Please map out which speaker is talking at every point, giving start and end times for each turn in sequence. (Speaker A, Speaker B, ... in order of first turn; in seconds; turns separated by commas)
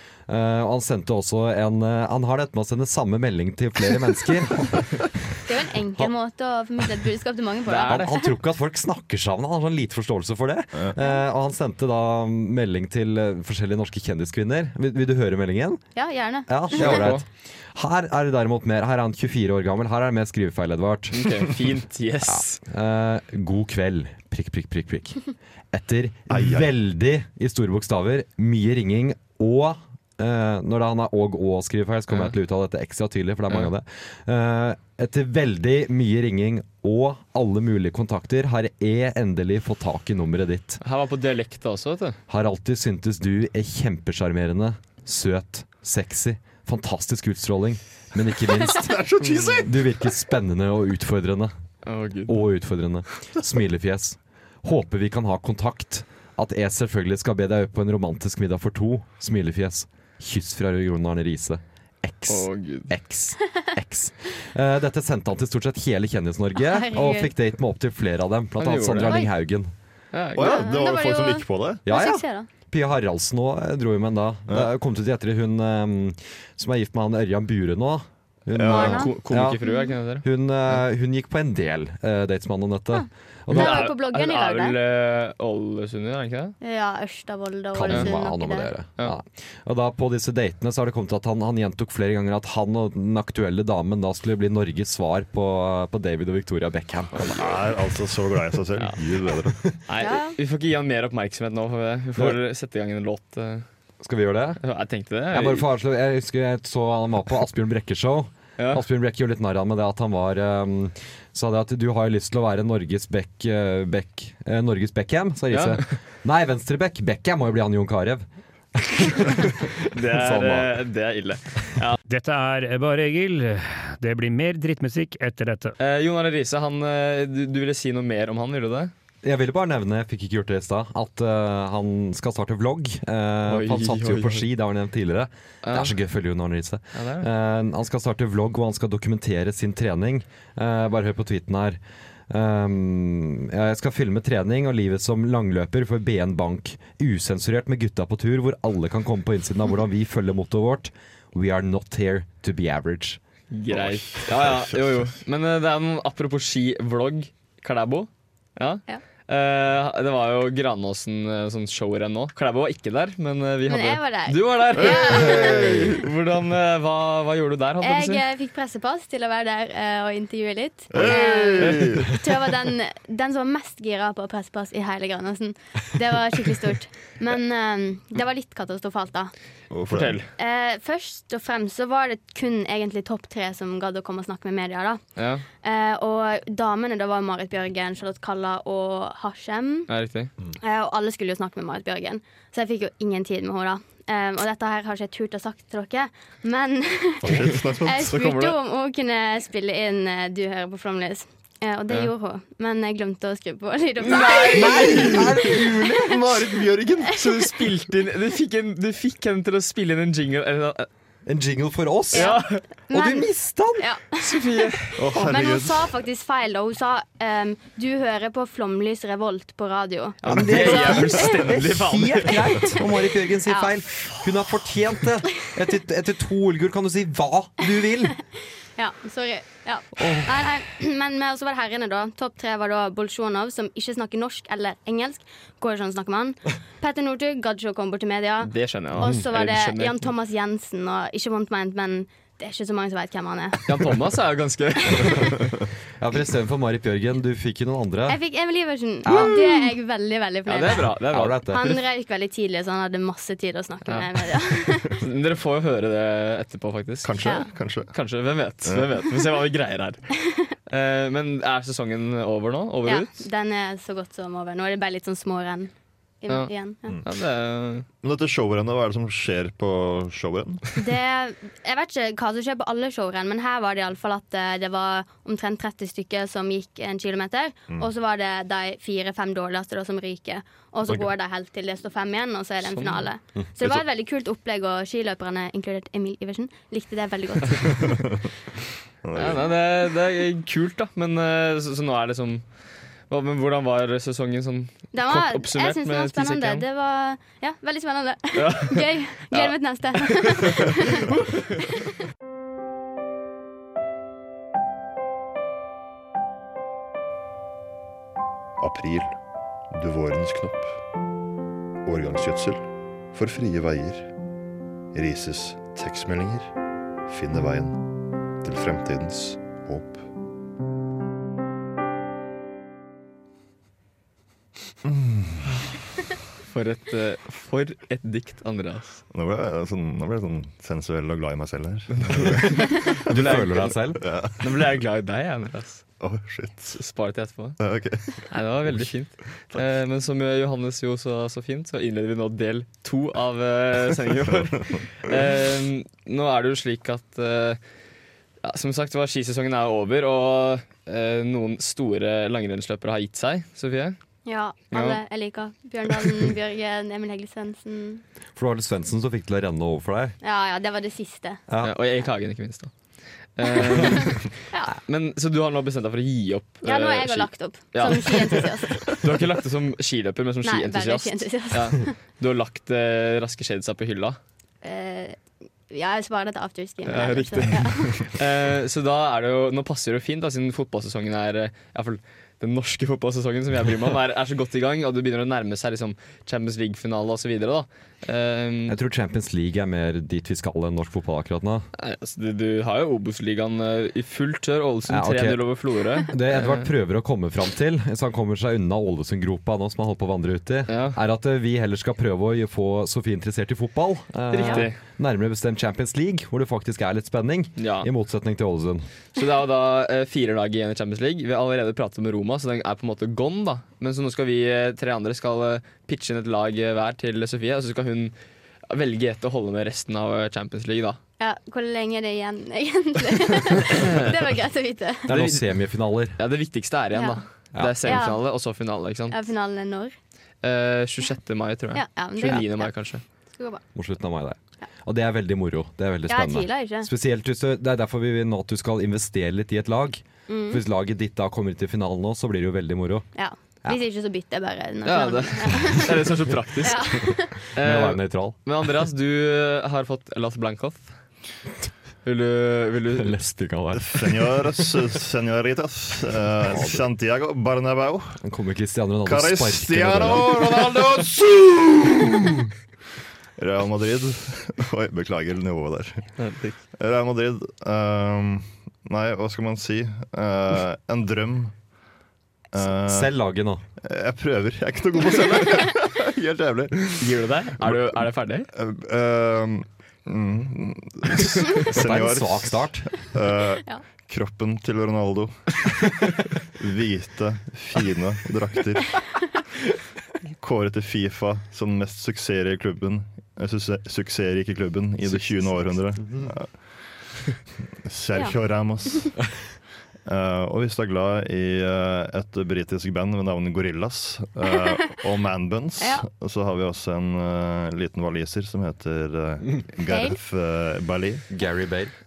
Speaker A: 0.3-5.4, Speaker B: 5.5-8.3, Speaker C: 7.7-8.1, Speaker A: 7.8-15.8, Speaker B: 16.0-17.1, Speaker A: 16.5-21.5, Speaker C: 16.8-17.2, Speaker C: 21.1-22.6, Speaker A: 22.2-40.8, Speaker D: 26.3-26.7, Speaker C: 40.8-42.2, Speaker A: 42.3-49.1, Speaker D: 48.7-49.9, Speaker C: 49.2-49.5, Speaker A: 49.6-51.5, Speaker C: 51.9-52.4, Speaker A: 52.3-69.7, Speaker C: 62.3-62.9, Speaker B: 66.6-67.3, Speaker C: 68.6-69.2, Speaker C: 70.1-70.7, Speaker D: 70.4-71.8, Speaker B: 70.4-72.5, Speaker A: 71.9-79.6, Speaker D: 78.6-79.0, Speaker B: 78.7-79.1, Speaker C: 78.7-80.2, Speaker B: 79.6-79.9, Speaker A: 80.2-83.9, Speaker B: 82.9-84.8, Speaker C: 83.5-86.5, Speaker B: 86.6-88.7, Speaker A: 87.7-97.3, Speaker D: 97.2-99.6, Speaker C: 99.9-103.7, Speaker B: 100.0-100.4, Speaker A: 104.0-104.6, Speaker C: 104.6-105.7, Speaker A: 105.3-120.8, Speaker C: 108.6-108.8, Speaker C: 115.5-115.8, Speaker C: 119.9-122.0, Speaker E: 122.1-125.7, Speaker C: 125.8-128.9, Speaker A: 129.2-153.2, Speaker C: 133.5-134.5, Speaker C: 135.6-135.9, Speaker C: 136.9-137.3, Speaker C: 153.5-168.2, Speaker D: 154.1-154.8, Speaker B: 163.7-165.8, Speaker D: 164.8-166.1, Speaker B: 167.8-179.3, Speaker D: 170.9-172.2, Speaker D: 179.7-180.2, Speaker C: 179.9-180.3, Speaker B: 180.4-185.0, Speaker C: 185.2-185.4, Speaker B: 185.6-189.9, Speaker C: 189.9-190.3, Speaker B: 190.6-205.3, Speaker D: 197.2-198.2, Speaker C: 198.1-198.6, Speaker C: 204.1-205.2, Speaker D: 204.2-207.4, Speaker A: 204.5-206.2, Speaker C: 207.1-210.9, Speaker A: 211.3-212.4, Speaker B: 212.1-214.3, Speaker C: 212.1-212.6, Speaker A: 212.9-213.9, Speaker C: 214.2-215.0, Speaker D: 215.0-215.9, Speaker B: 215.1-221.5, Speaker C: 220.2-222.8, Speaker A: 220.3-228.2, Speaker B: 223.5-223.7, Speaker B: 228.8-243.7, Speaker A: 230.0-230.3, Speaker C: 238.4-240.1, Speaker C: 243.7-245.5, Speaker A: 246.0-248.2, Speaker B: 248.1-250.9, Speaker A: 249.1-249.4, Speaker C: 250.5-251.8, Speaker A: 251.1-251.7, Speaker B: 251.5-255.0, Speaker C: 253.9-257.3, Speaker D: 257.0-257.9, Speaker B: 257.2-257.5, Speaker C: 257.9-260.1, Speaker D: 258.7-259.1, Speaker B: 260.3-260.5, Speaker C: 260.7-263.1, Speaker B: 262.9-266.9, Speaker C: 267.0-267.9, Speaker D: 268.0-270.6, Speaker B: 270.8-288.1, Speaker C: 282.6-283.1, Speaker D: 287.9-288.2, Speaker D: 289.0-289.6, Speaker C: 289.1-292.4, Speaker C: 293.1-296.6, Speaker B: 294.9-301.2, Speaker C: 298.3-301.2, Speaker D: 308.6-309.2, Speaker D: 309.7-310.8, Speaker D: 311.9-314.1, Speaker D: 314.9-316.5, Speaker D: 317.1-320.1, Speaker D: 324.9-325.4, Speaker C: 326.4-329.0, Speaker D: 329.1-332.9, Speaker C: 332.0-333.8, Speaker A: 332.9-334.0, Speaker D: 334.0-334.5, Speaker C: 334.4-335.8, Speaker D: 336.0-336.8, Speaker C: 336.7-337.6, Speaker D: 337.6-338.3, Speaker C: 338.3-347.6, Speaker C: 348.4-354.0, Speaker B: 354.2-358.0, Speaker C: 354.7-355.0, Speaker A: 358.4-360.1, Speaker B: 360.2-361.4, Speaker C: 361.6-362.7, Speaker C: 363.4-374.2, Speaker B: 363.7-364.7, Speaker B: 366.6-369.0, Speaker B: 370.4-371.9, Speaker B: 374.6-375.2, Speaker B: 375.7-378.1, Speaker C: 376.9-388.8, Speaker A: 388.7-391.7, Speaker C: 391.8-396.7, Speaker A: 394.9-395.5, Speaker A: 396.0-408.9, Speaker C: 400.7-401.0, Speaker C: 404.3-404.8, Speaker C: 407.6-407.9, Speaker C: 409.1-418.1, Speaker C: 418.7-421.0, Speaker B: 421.2-425.1, Speaker C: 423.7-424.1, Speaker A: 425.1-426.2, Speaker C: 425.1-425.5, Speaker C: 426.2-429.2, Speaker B: 426.9-427.2, Speaker A: 427.6-428.1, Speaker B: 427.8-428.2, Speaker B: 429.1-429.9, Speaker C: 430.4-433.0, Speaker B: 431.8-432.7, Speaker B: 433.4-433.6, Speaker A: 433.8-443.1, Speaker B: 436.1-436.9, Speaker B: 440.3-440.6, Speaker B: 443.2-446.1, Speaker C: 444.9-450.9, Speaker B: 446.6-447.4, Speaker A: 447.6-448.4, Speaker C: 452.1-453.2, Speaker A: 453.0-454.5, Speaker D: 453.8-458.2, Speaker A: 456.5-456.9, Speaker A: 458.2-460.8, Speaker D: 459.1-462.5, Speaker D: 463.4-466.1, Speaker C: 466.2-466.6, Speaker D: 466.7-471.6, Speaker D: 472.5-473.1, Speaker A: 472.6-473.6, Speaker D: 473.8-478.0, Speaker C: 477.0-478.5, Speaker D: 478.5-489.2, Speaker A: 481.7-482.9, Speaker D: 490.4-496.6, Speaker D: 497.8-499.3, Speaker D: 500.1-511.3, Speaker B: 505.8-506.1, Speaker B: 509.9-510.2, Speaker A: 511.3-511.9